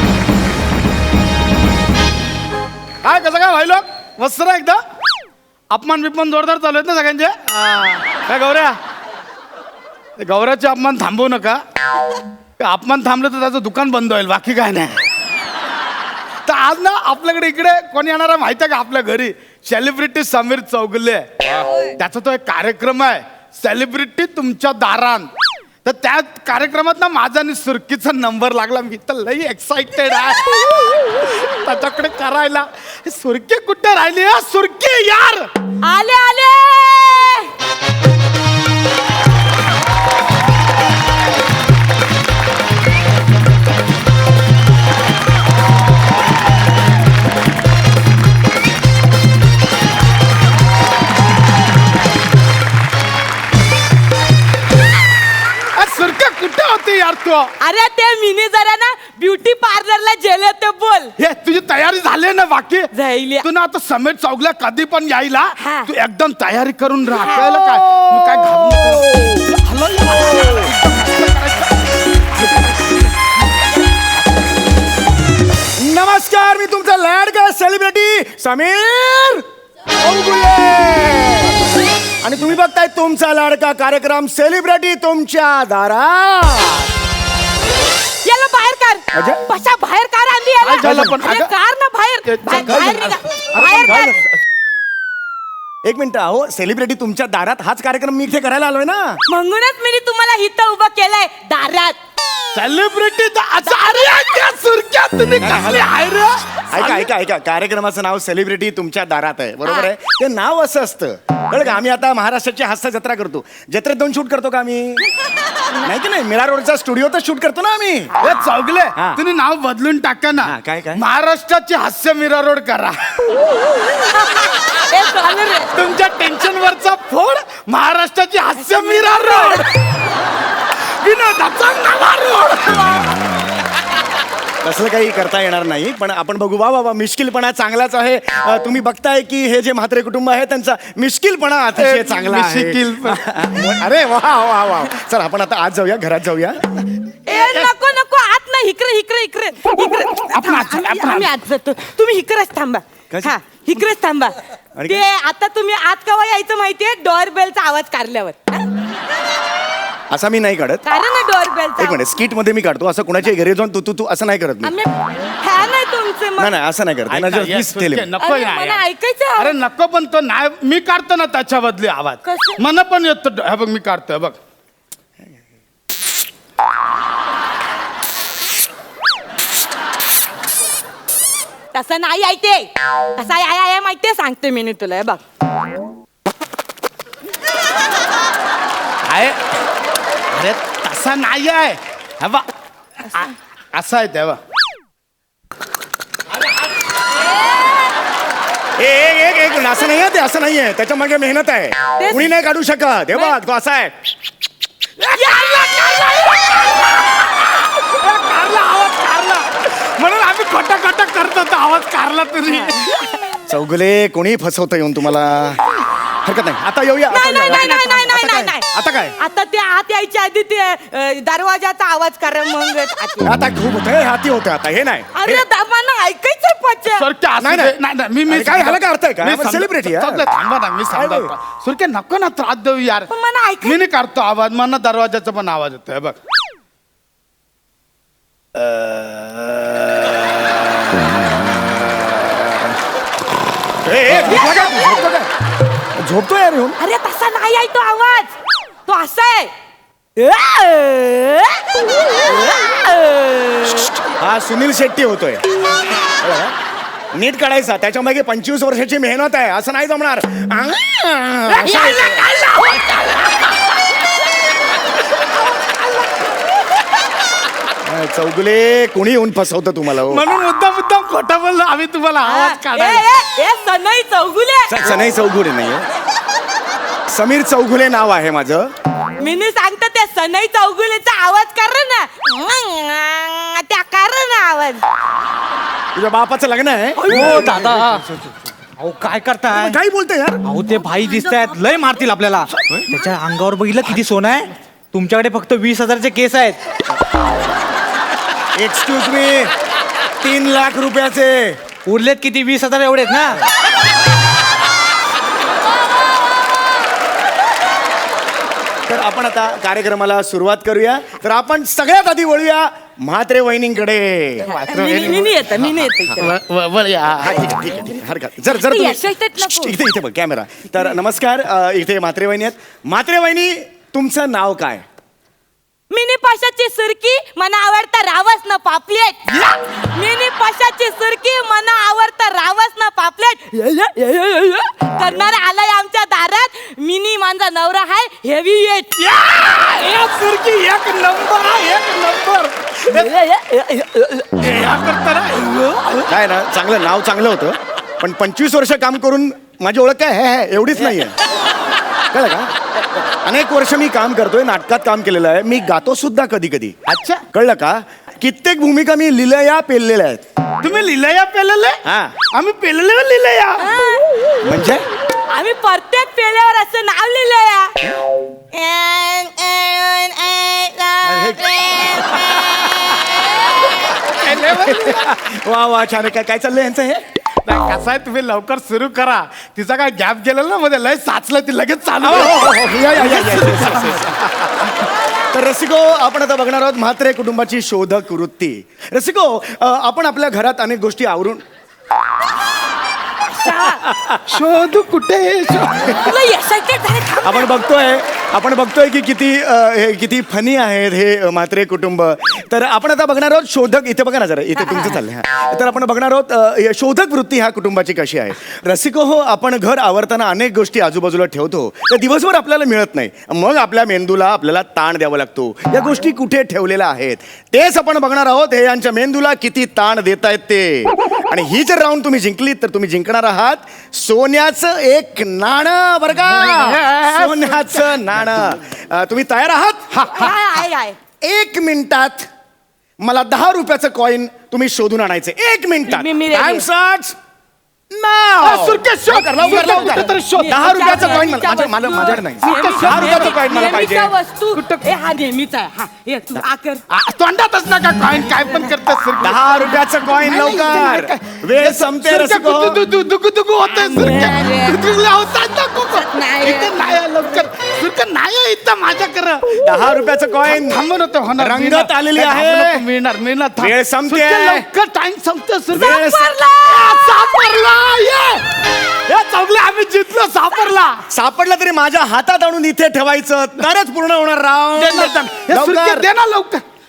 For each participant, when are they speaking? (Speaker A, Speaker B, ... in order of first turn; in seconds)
Speaker A: 3.0-4.8, 5.7-8.8, 10.2-11.6, 12.6-15.0, 16.5-25.3, 25.9-35.5, 55.8-57.5, 61.2-62.9, 63.4-73.0, 90.6-91.5, 92.3-94.2, 102.5-107.1, 118.2-123.0, 125.7-129.7, 131.0-133.1, 141.8-143.2, 147.3-147.7, 150.1-151.3, 167.1-168.9, 169.4-174.4, 189.0-189.4, 190.3-192.5, 193.1-194.4, 205.1-205.9, 207.8-212.9, 217.2-219.2, 226.9-233.1, 233.6-236.2, 244.1-244.4, 261.6-262.4, 270.0-273.1, 287.2-287.8, 314.5-315.5, 316.2-317.6, 339.0-343.1, 344.2-346.1, 356.9-357.2, 360.6-361.8, 362.3-363.7, 374.1-375.1, 377.4-384.2, 394.2-396.1, 426.4-427.9, 429.9-430.4, 438.4-441.3, 442.0-443.9, 444.5-444.9, 446.9-449.4, 450.1-459.7, 460.5-466.0, 466.6-468.4, 469.1-471.0, 474.8-476.6
Speaker B: 21.6-21.9, 35.9-37.5, 57.6-61.1, 62.9-63.5, 65.6-65.9, 67.1-67.5, 88.2-94.1, 99.3-102.0, 103.7-104.5, 124.1-125.7, 128.6-129.7, 147.3-158.7, 160.8-162.0, 164.6-166.5, 168.2-169.5, 172.2-172.6, 181.7-185.2, 202.0-202.3, 205.1-207.2, 212.5-213.4, 217.1-218.7, 219.2-223.4, 225.2-227.1, 233.1-233.8, 244.3-245.1, 246.8-248.3, 248.9-249.5, 250.2-254.0, 261.5-263.5, 272.2-274.8, 279.2-284.8, 291.0-291.5, 314.6-316.3, 318.5-319.8, 325.9-339.1, 342.9-344.3, 363.6-364.1, 365.3-367.8, 368.5-373.6, 393.2-393.9, 395.9-397.6, 404.5-405.0, 430.1-431.0, 435.9-436.7, 439.6-446.8, 453.7-454.8, 455.8-456.7, 465.7-467.5, 470.5-470.8
Speaker C: 67.3-69.5, 75.8-79.4, 80.0-81.6, 82.2-86.9, 89.1-89.4, 90.8-91.2, 92.6-93.1, 93.7-94.2, 95.8-99.2, 105.4-105.9, 106.7-115.1, 115.8-118.1, 120.4-121.0, 134.6-146.8, 154.8-155.0, 160.1-160.8, 161.8-164.7, 166.4-168.1, 198.8-203.9, 213.5-215.6, 216.2-217.7, 223.2-225.5, 227.4-227.8, 228.3-230.2, 230.9-231.3, 238.5-242.8, 243.8-245.3, 246.0-246.8, 254.0-255.4, 256.1-256.6, 257.1-262.2, 267.9-270.2, 274.7-275.9, 277.1-278.7, 285.9-287.6, 289.5-290.4, 298.6-299.5, 300.2-301.6, 308.9-314.5, 317.2-324.8, 346.1-351.2, 352.1-352.5, 353.2-356.8, 357.3-360.2, 361.9-362.2, 364.4-364.9, 371.1-372.6, 374.5-377.0, 382.0-391.4, 393.9-394.2, 397.2-429.9, 431.2-432.3, 433.0-437.2, 437.9-444.1, 449.2-452.8, 459.6-460.8, 461.4-462.8, 463.6-464.7, 465.7-466.3, 471.1-476.1
Speaker D: 287.1-289.8, 290.4-296.6, 301.9-303.4